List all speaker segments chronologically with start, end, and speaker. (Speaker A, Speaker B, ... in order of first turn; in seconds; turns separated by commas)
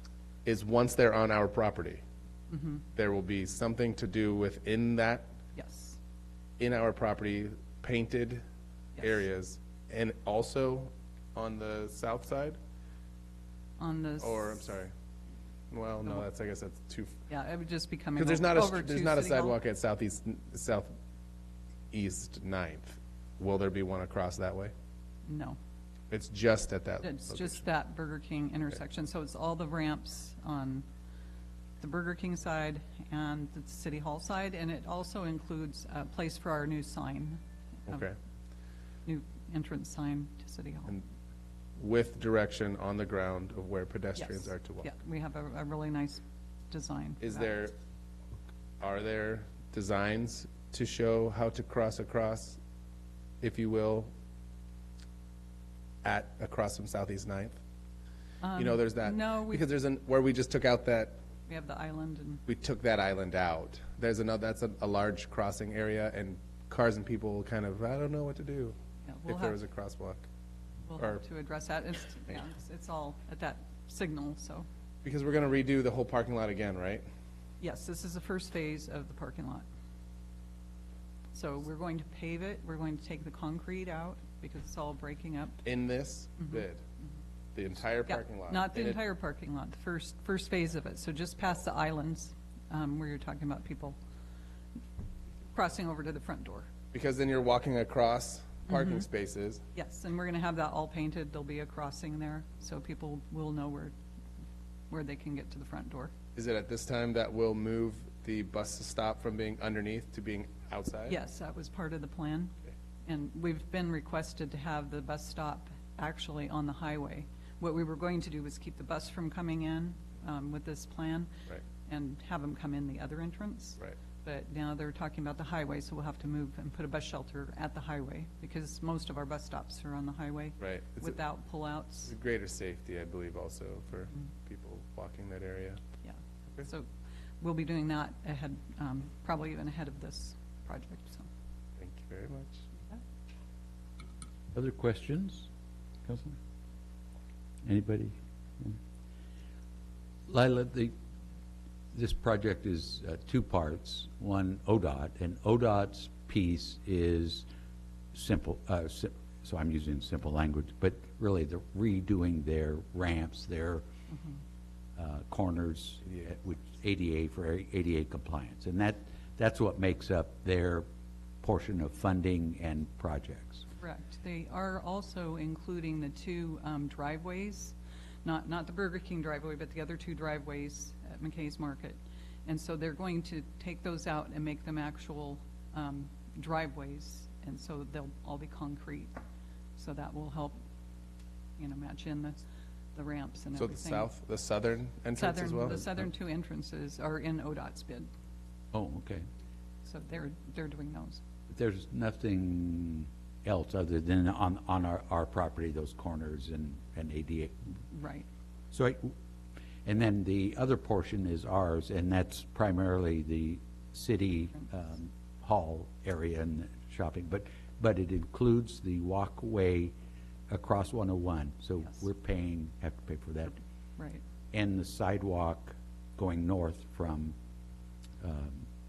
Speaker A: 0.4-2.0, Speaker B: 2.5-2.8, Speaker A: 3.0-5.3, Speaker B: 5.5-6.0, Speaker A: 6.6-8.4, Speaker B: 8.9-9.2, Speaker A: 9.0-12.6, Speaker B: 13.8-14.6, Speaker A: 14.2-14.9, Speaker A: 15.7-17.2, Speaker B: 17.3-19.6, Speaker A: 18.2-20.9, Speaker A: 21.9-24.7, Speaker B: 25.2-25.6, Speaker A: 26.1-27.6, Speaker B: 27.0-30.8, Speaker B: 31.8-38.0, Speaker A: 37.9-38.1, Speaker B: 39.0-41.0, Speaker A: 41.8-44.9, Speaker B: 44.1-47.7, Speaker A: 47.2-47.7, Speaker A: 48.8-52.6, Speaker A: 53.4-54.1, Speaker A: 56.0-57.6, Speaker B: 58.4-59.6, Speaker A: 58.5-61.1, Speaker B: 61.5-62.4, Speaker A: 62.5-68.7, Speaker B: 69.0-69.6, Speaker A: 69.3-70.2, Speaker B: 70.9-74.7, Speaker A: 75.0-77.0, Speaker B: 77.6-79.7, Speaker B: 81.3-85.6, Speaker A: 85.6-86.8, Speaker B: 86.4-86.7, Speaker A: 87.5-89.0, Speaker B: 88.0-94.0, Speaker B: 95.5-96.7, Speaker A: 96.9-99.6, Speaker B: 98.7-99.1, Speaker B: 99.7-103.9, Speaker B: 104.9-106.1, Speaker A: 106.3-111.2, Speaker B: 111.0-112.5, Speaker B: 113.0-121.3, Speaker B: 121.8-132.1, Speaker A: 130.6-131.2, Speaker A: 132.1-135.8, Speaker B: 136.0-136.9, Speaker B: 137.4-141.3, Speaker A: 141.8-142.6, Speaker C: 144.5-145.5, Speaker C: 146.0-146.4, Speaker C: 147.6-148.8, Speaker C: 150.3-150.9, Speaker C: 151.9-157.4, Speaker C: 158.1-163.8, Speaker B: 164.1-164.4, Speaker C: 165.0-170.8, Speaker C: 171.4-173.7, Speaker B: 173.8-189.1, Speaker B: 189.8-190.6, Speaker B: 191.6-192.4, Speaker B: 192.9-194.1, Speaker A: 193.6-196.0, Speaker B: 195.1-198.1, Speaker C: 198.7-199.2, Speaker B: 199.8-201.2, Speaker C: 201.5-207.6, Speaker B: 207.9-208.3, Speaker C: 208.7-209.1, Speaker C: 209.8-219.9, Speaker C: 220.5-223.6, Speaker B: 224.0-224.2, Speaker C: 224.5-227.3, Speaker C: 228.2-228.7